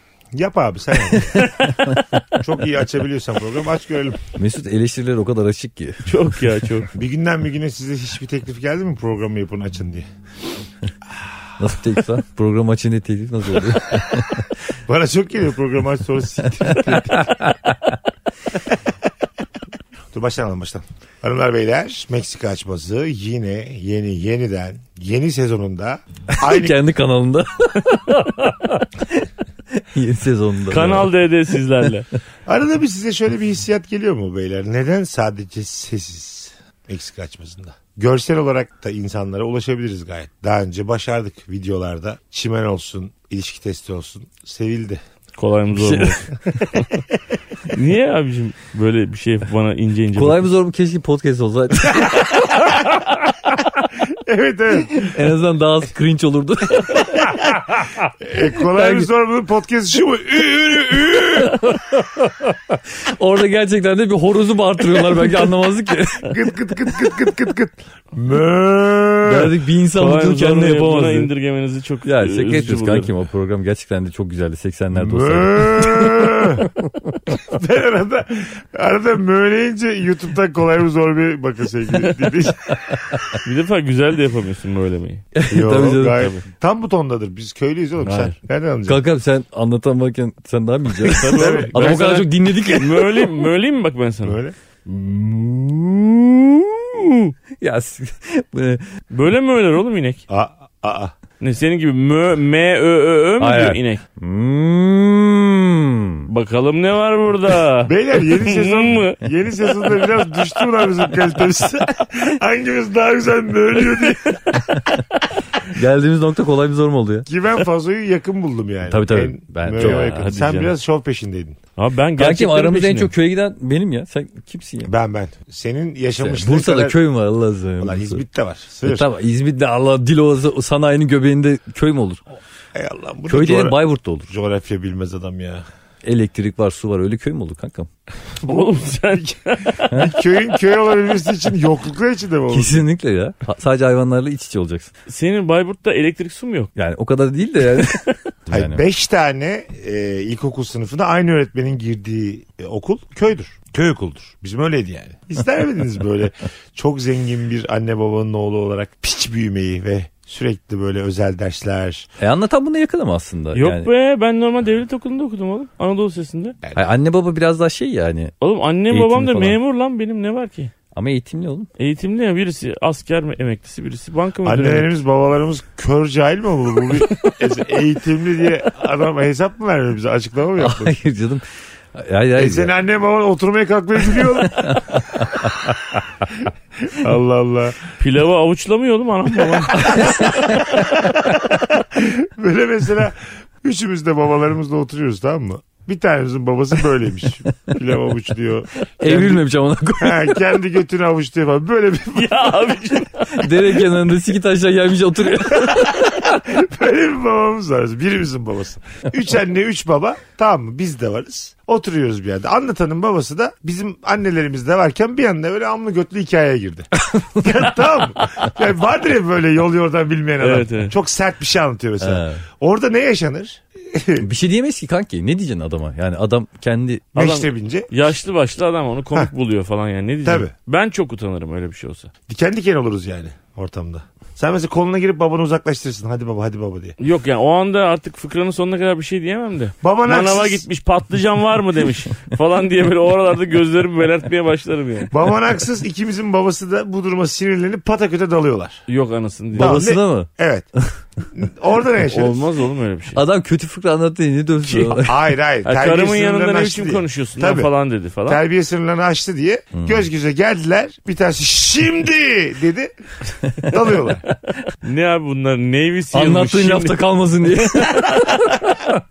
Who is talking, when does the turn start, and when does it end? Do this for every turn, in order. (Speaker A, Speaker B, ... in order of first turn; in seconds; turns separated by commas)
Speaker A: 0.3-1.5, Speaker B: 1.1-2.4, Speaker A: 2.4-4.2, Speaker B: 4.4-6.2, Speaker C: 6.1-6.9, Speaker A: 6.9-10.1, Speaker B: 11.6-14.5, Speaker A: 13.7-17.4, Speaker B: 16.6-18.0, Speaker A: 20.1-26.8, Speaker B: 26.4-31.1, Speaker C: 28.1-28.5, Speaker C: 30.7-32.1, Speaker A: 32.5-45.0, Speaker C: 45.4-46.3, Speaker B: 45.7-46.8, Speaker A: 46.6-47.0, Speaker C: 47.7-50.5, Speaker B: 50.1-52.2, Speaker A: 52.6-53.0, Speaker A: 53.9-55.1, Speaker B: 54.9-57.5, Speaker A: 56.9-61.7, Speaker B: 58.7-59.1, Speaker B: 61.6-66.3, Speaker A: 66.3-69.5, Speaker B: 69.2-71.3, Speaker C: 70.0-73.1, Speaker B: 72.0-77.2, Speaker A: 74.9-76.7, Speaker A: 77.4-83.3, Speaker B: 82.7-83.4, Speaker C: 83.4-85.2, Speaker B: 85.3-86.2, Speaker A: 85.5-89.0, Speaker B: 88.0-88.3, Speaker B: 88.9-93.3, Speaker C: 91.0-94.4, Speaker A: 91.2-92.0, Speaker A: 94.2-94.5, Speaker B: 97.6-98.9, Speaker C: 99.1-100.2, Speaker A: 100.3-101.1, Speaker C: 101.4-104.0, Speaker B: 103.4-106.3, Speaker C: 106.3-109.2, Speaker A: 107.8-114.6, Speaker B: 114.5-115.0, Speaker B: 115.6-117.3, Speaker A: 117.3-121.6, Speaker B: 118.9-120.2, Speaker C: 119.8-120.7, Speaker C: 121.8-123.1, Speaker B: 122.2-124.9, Speaker A: 124.8-127.0, Speaker B: 126.2-128.2, Speaker A: 127.8-129.1, Speaker B: 128.8-132.2, Speaker A: 132.8-135.6, Speaker B: 133.3-134.3, Speaker B: 136.0-137.9, Speaker C: 138.4-139.9, Speaker A: 138.4-142.9, Speaker B: 139.9-140.1, Speaker B: 142.5-144.9, Speaker C: 145.1-146.7, Speaker B: 146.8-148.8, Speaker A: 148.5-162.1, Speaker B: 162.2-163.9, Speaker C: 163.6-166.6, Speaker B: 166.8-168.3, Speaker C: 168.4-170.7, Speaker B: 168.9-169.6, Speaker B: 170.9-171.7, Speaker C: 171.8-174.9, Speaker A: 174.4-181.0, Speaker B: 180.6-181.4, Speaker B: 181.9-182.7, Speaker A: 182.4-185.0, Speaker B: 184.4-185.8, Speaker A: 186.3-187.8, Speaker C: 188.0-190.9, Speaker A: 189.5-199.4, Speaker B: 189.7-190.9, Speaker B: 199.0-200.4, Speaker A: 200.0-202.8, Speaker C: 202.1-203.8, Speaker B: 203.3-206.3, Speaker A: 205.6-224.2, Speaker B: 217.1-217.4, Speaker C: 220.4-220.9, Speaker B: 222.0-222.4, Speaker B: 224.2-227.1, Speaker C: 227.1-232.1, Speaker A: 227.2-227.9, Speaker A: 230.2-230.5, Speaker A: 232.3-237.0, Speaker C: 237.0-245.1, Speaker A: 239.8-240.6, Speaker A: 245.1-248.8, Speaker C: 248.9-249.8, Speaker B: 249.6-250.3, Speaker A: 249.6-250.7, Speaker A: 251.2-252.4, Speaker C: 252.1-253.2, Speaker B: 253.2-255.2, Speaker C: 254.7-255.0, Speaker A: 255.0-257.7, Speaker C: 255.7-258.4, Speaker A: 258.3-262.9, Speaker B: 259.7-260.0, Speaker B: 263.4-263.7, Speaker A: 263.6-264.2, Speaker C: 264.8-267.0, Speaker B: 266.1-269.0, Speaker C: 267.5-268.5